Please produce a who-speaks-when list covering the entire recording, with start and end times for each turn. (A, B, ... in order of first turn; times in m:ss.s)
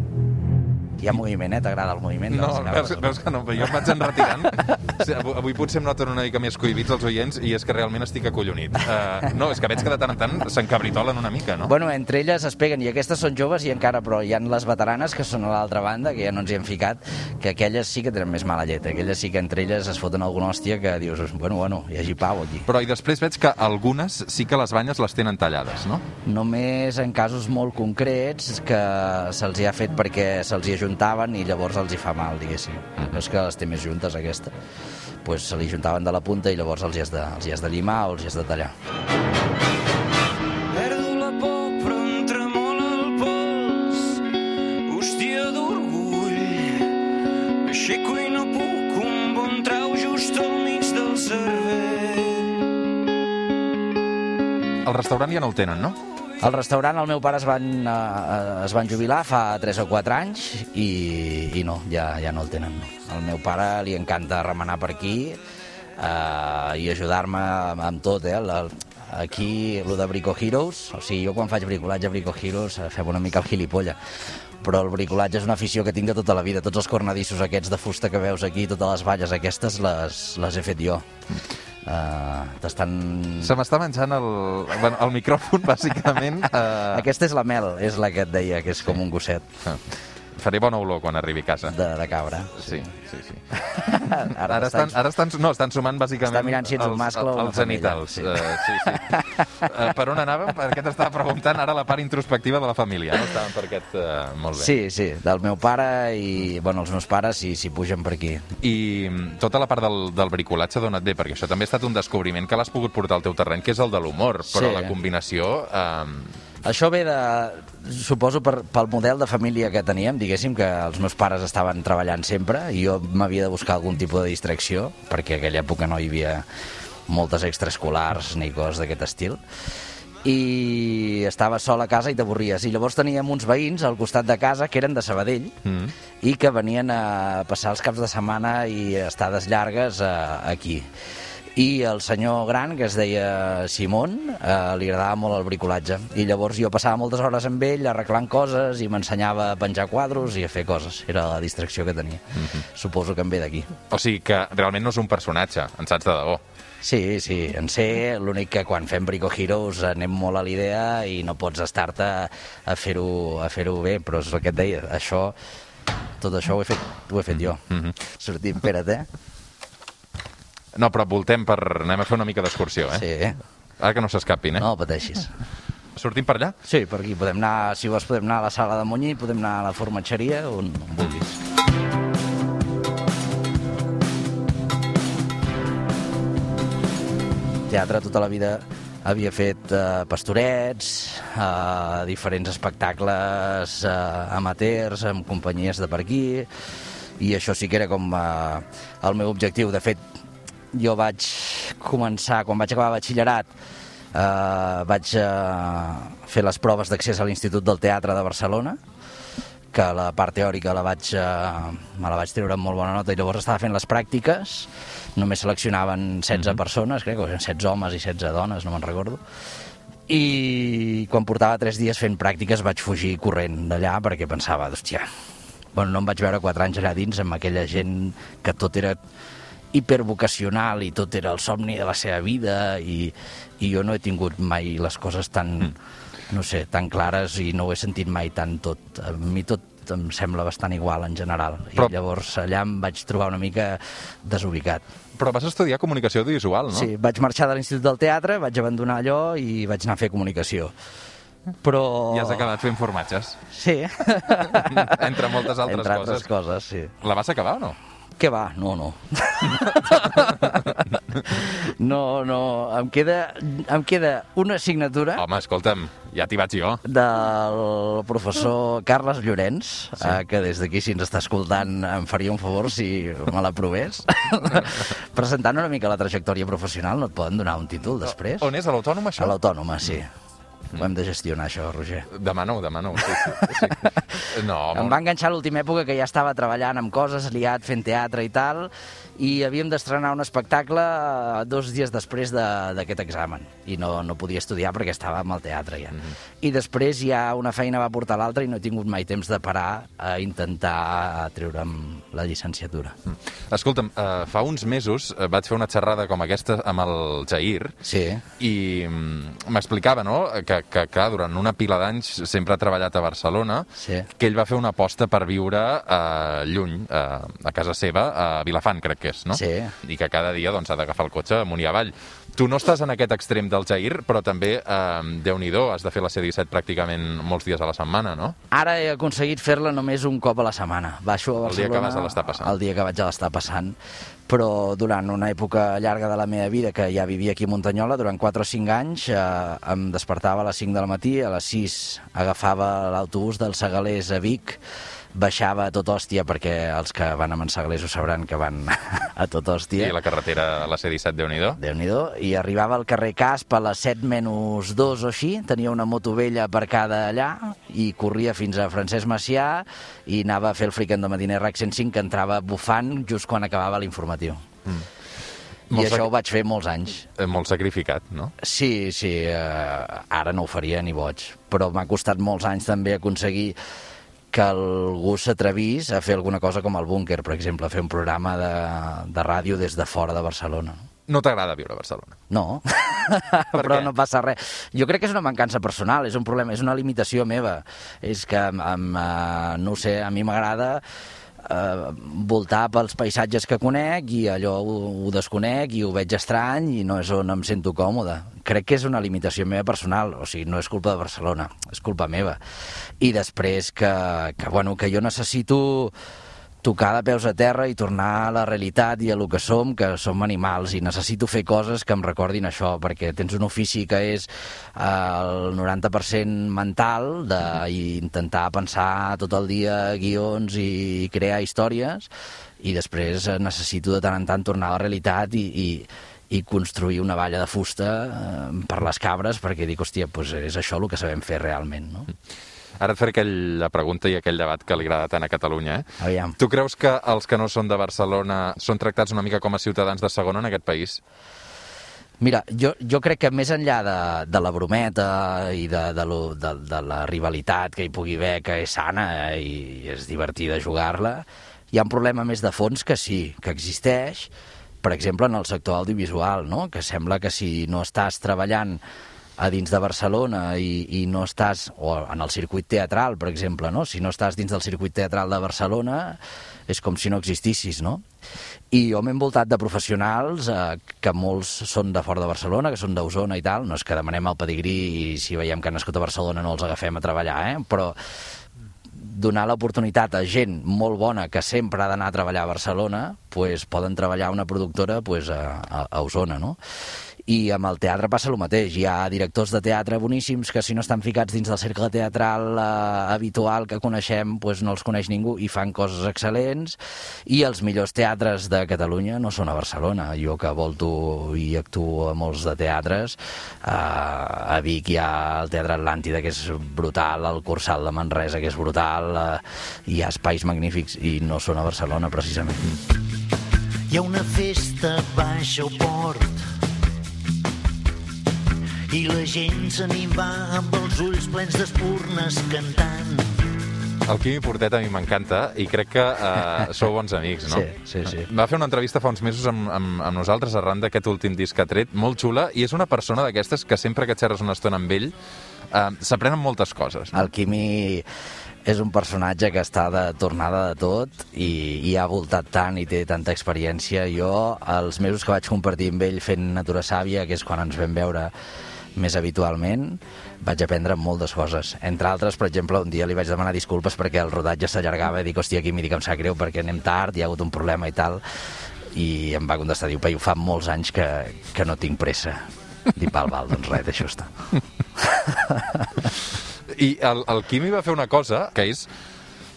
0:01.0-0:03.2 A
0:02.3-0:11.7 B
0:11.6-0:22.7 A
0:22.7-0:26.1 B
0:26.3-0:34.5 A
0:35.2-0:38.7 A
0:40.7-0:44.2 C
0:44.9-0:46.9 C
0:47.6-0:52.6 C
0:54.8-0:56.0 B
0:56.4-1:05.4 A
1:06.0-1:14.0 A
1:14.6-1:21.1 A
1:21.8-1:23.6 A
1:23.4-1:27.1 B
1:26.8-1:29.5 A
1:30.4-1:31.8 B
1:31.7-1:32.9 A
1:32.6-1:44.8 B
1:33.6-1:35.0 A
1:36.3-1:39.6 A
1:44.6-1:48.5 A
1:48.6-1:56.4 B
1:54.5-1:55.0 A
1:56.6-2:06.5 A
2:07.1-2:09.4 A
2:10.2-2:15.6 A
2:15.6-2:15.9 B
2:16.2-2:20.9 A
2:21.6-2:33.7 A
2:33.9-2:36.4 B
2:36.8-2:45.4 A
2:46.2-2:49.1 A
2:47.3-2:48.0 B
2:50.8-2:53.1 B
2:52.9-2:53.4 A
2:53.8-2:54.7 B
2:54.6-2:55.3 A
2:56.0-2:56.6 B
2:56.6-3:01.4 A
3:07.7-3:16.5 A
3:17.2-3:20.0 A
3:20.7-3:23.5 A
3:24.1-3:28.8 A
3:29.7-3:39.2 A
3:36.3-3:36.6 B
3:40.1-3:45.1 A
3:45.8-3:49.0 A
3:49.7-3:55.8 A
3:56.3-4:04.8 A
4:05.2-4:06.9 B
4:06.7-4:10.7 A
4:11.6-4:12.5 A
4:12.1-4:13.4 B
4:13.5-4:16.9 A
4:14.4-4:16.3 B
4:17.0-4:17.8 B
4:18.2-4:25.2 A
4:19.6-4:20.7 B
4:25.2-4:26.8 B
4:26.8-4:38.5 A
4:38.3-4:39.9 B
4:39.2-4:40.1 A
4:40.7-4:42.1 A
4:42.1-4:45.0 B
4:43.5-5:03.0 A
5:03.1-5:07.8 B
5:07.8-5:08.2 A
5:08.4-5:28.4 B
5:13.8-5:14.1 A
5:19.3-5:19.8 A
5:28.5-5:33.8 A
5:31.4-5:32.6 B
5:34.3-5:44.6 A
5:45.2-5:50.0 A
5:49.8-5:51.6 B
5:51.6-6:04.4 A
6:05.7-6:06.1 B
6:05.7-6:07.1 A
6:07.2-6:08.3 B
6:08.4-6:13.6 A
6:14.3-6:20.8 A
6:21.1-6:22.2 B
6:22.3-6:30.8 A
6:23.5-6:23.9 B
6:31.4-6:42.4 A
6:43.0-6:45.9 A
6:46.6-7:02.1 A
7:02.6-7:12.1 A
7:12.8-7:21.0 B
7:16.0-7:16.4 A
7:22.2-7:34.3 A
7:34.8-7:38.8 A
7:39.4-7:48.0 A
7:48.7-7:58.0 A
7:59.0-8:06.6 A
8:07.3-8:32.8 A
8:33.9-8:36.4 D
8:38.9-8:43.5 D
8:44.1-8:55.1 B
8:47.5-8:48.3 A
8:55.7-8:57.3 B
8:57.1-8:58.0 A
8:58.7-9:08.3 A
9:09.0-9:18.2 A
9:18.9-9:24.3 A
9:25.0-9:25.9 A
9:26.7-9:28.9 B